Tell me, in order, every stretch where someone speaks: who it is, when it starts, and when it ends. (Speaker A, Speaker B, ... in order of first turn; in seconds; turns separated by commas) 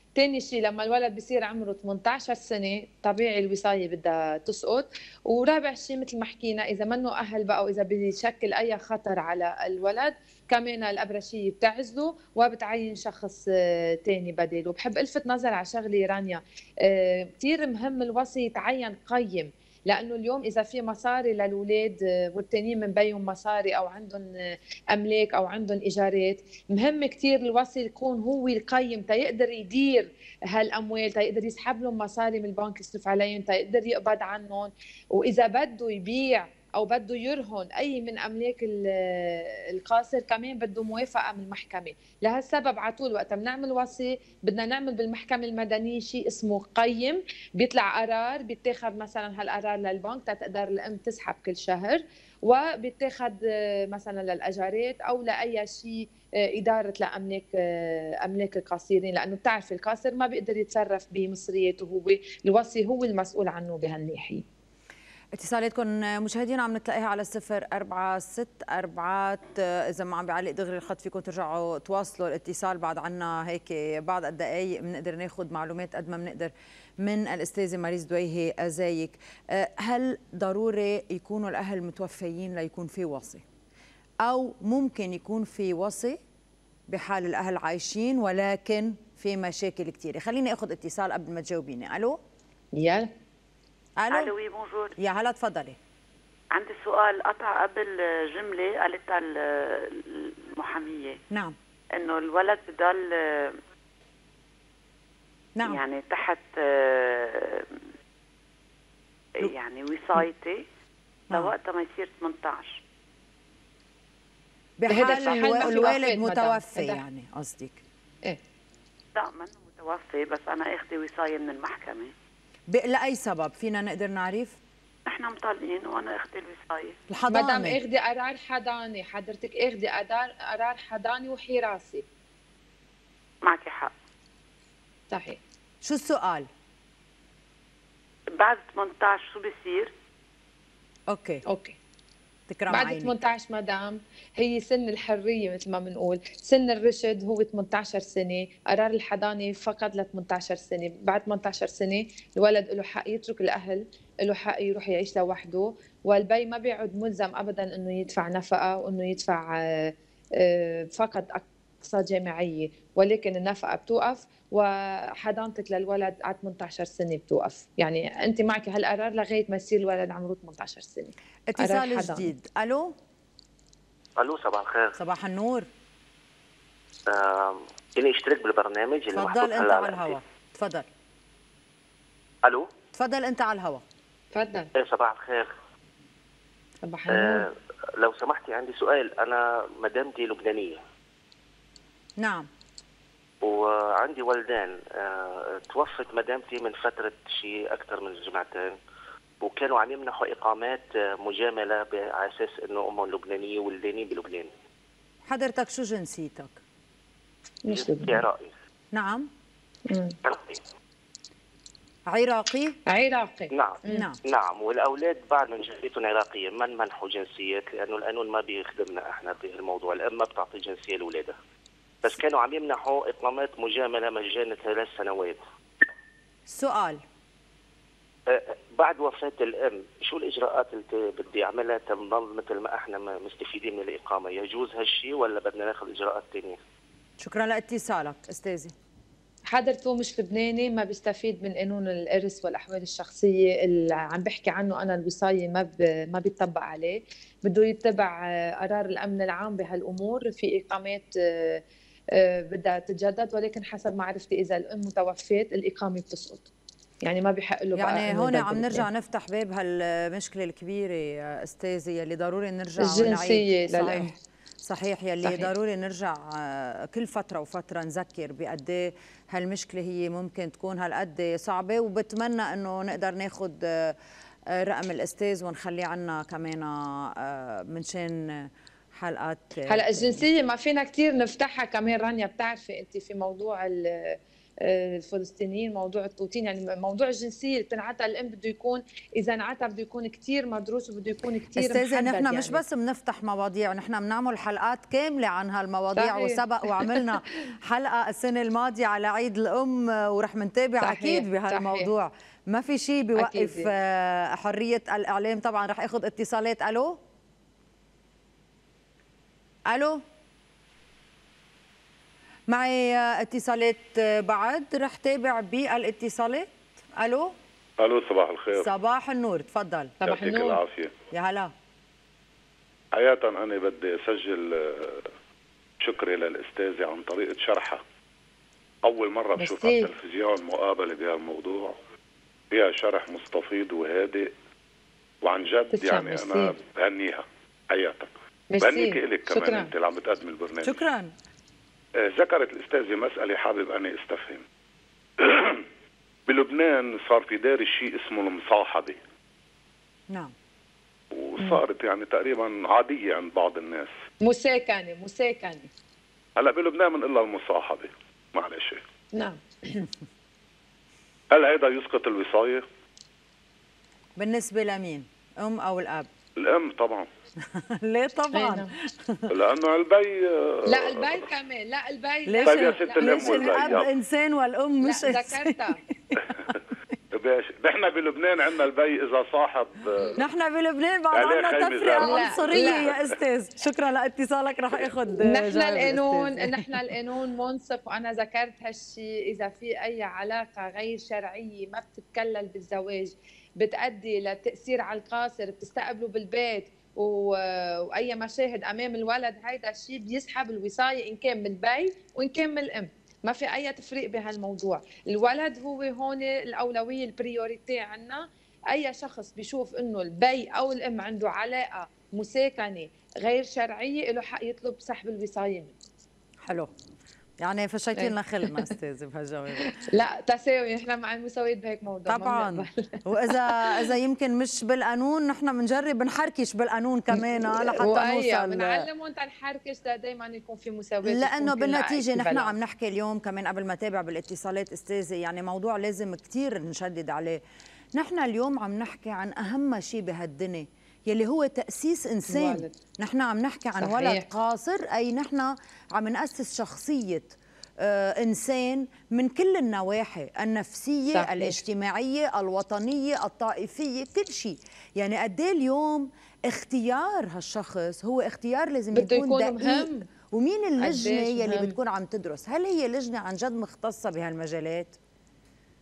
Speaker A: 0.2-64.4, Speaker B: 65.3-83.4, Speaker B: 84.2-86.2, Speaker B: 86.9-92.2, Speaker A: 92.8-93.1, Speaker B: 94.0-94.3, Speaker C: 94.1-94.9, Speaker B: 95.0-95.8, Speaker C: 96.5-101.2, Speaker B: 101.3-101.6, Speaker C: 102.0-103.6, Speaker B: 105.6-105.8, Speaker C: 105.6-107.7, Speaker C: 109.4-110.7, Speaker C: 111.3-112.8, Speaker B: 114.8-117.8, Speaker A: 114.9-117.0, Speaker C: 119.2-122.1, Speaker B: 122.7-124.6, Speaker C: 125.1-127.0, Speaker B: 127.1-127.8, Speaker A: 127.3-132.0, Speaker C: 133.4-133.9, Speaker A: 135.1-135.4, Speaker B: 135.8-136.5, Speaker C: 138.4-139.9, Speaker B: 141.1-141.4, Speaker A: 141.5-141.8, Speaker B: 142.5-143.1, Speaker A: 142.7-172.3, Speaker B: 171.5-172.9, Speaker D: 174.2-175.0, Speaker B: 175.0-175.7, Speaker D: 177.1-180.2, Speaker B: 179.1-180.9, Speaker B: 182.9-183.8, Speaker A: 184.3-184.7, Speaker D: 184.8-185.5, Speaker A: 186.8-187.5, Speaker D: 187.1-190.8, Speaker B: 192.2-192.5, Speaker D: 193.4-198.8, Speaker D: 199.4-204.5, Speaker B: 205.2-206.6, Speaker A: 207.7-208.2, Speaker D: 207.7-208.5, Speaker B: 208.9-209.3, Speaker A: 209.9-210.2, Speaker D: 210.2-210.6, Speaker B: 212.1-212.8, Speaker A: 212.9-214.1, Speaker D: 213.5-221.3, Speaker B: 213.9-214.2, Speaker D: 222.0-225.4, Speaker B: 226.5-227.0, Speaker D: 228.3-236.6, Speaker B: 237.2-238.7, Speaker A: 239.5-251.6, Speaker A: 252.1-256.5, Speaker A: 257.0-258.9, Speaker B: 257.8-274.0, Speaker A: 262.8-264.1, Speaker A: 265.2-265.5, Speaker B: 274.5-280.2, Speaker A: 279.7-292.6, Speaker B: 291.6-307.0, Speaker A: 296.0-297.1, Speaker A: 300.8-301.9, Speaker A: 303.2-303.7, Speaker B: 309.7-310.0, Speaker B: 312.5-317.3, Speaker E: 317.8-318.7, Speaker B: 318.5-319.9, Speaker A: 320.0-320.6, Speaker E: 320.0-320.9, Speaker B: 321.1-321.5, Speaker E: 322.9-325.1, Speaker E: 325.8-327.8, Speaker E: 328.8-331.8, Speaker A: 329.4-329.9, Speaker E: 332.5-334.3, Speaker E: 335.2-340.8, Speaker A: 335.7-336.5, Speaker A: 338.5-339.7, Speaker B: 340.6-341.1, Speaker E: 342.0-344.4, Speaker E: 345.2-345.6, Speaker E: 346.3-349.0, Speaker E: 351.1-353.9, Speaker A: 354.2-355.7, Speaker E: 356.4-358.8, Speaker A: 359.2-359.9, Speaker E: 361.3-362.7, Speaker B: 364.2-366.1, Speaker E: 366.4-367.1, Speaker B: 367.4-369.3, Speaker A: 368.3-368.7, Speaker E: 369.3-371.3, Speaker A: 370.7-373.8, Speaker B: 372.3-376.5, Speaker E: 372.4-373.9, Speaker A: 374.8-375.8, Speaker E: 377.1-380.2, Speaker B: 380.2-386.8, Speaker E: 381.1-383.1, Speaker A: 382.0-382.9, Speaker A: 385.2-415.7, Speaker B: 416.4-416.7, Speaker B: 417.4-419.7, Speaker A: 418.0-418.7, Speaker A: 419.6-423.8, Speaker B: 422.1-428.9, Speaker A: 427.1-432.5, Speaker B: 431.0-437.4, Speaker B: 437.9-465.0, Speaker A: 442.3-442.7, Speaker A: 443.8-444.2, Speaker A: 451.1-451.6, Speaker A: 458.9-460.1, Speaker A: 460.8-461.8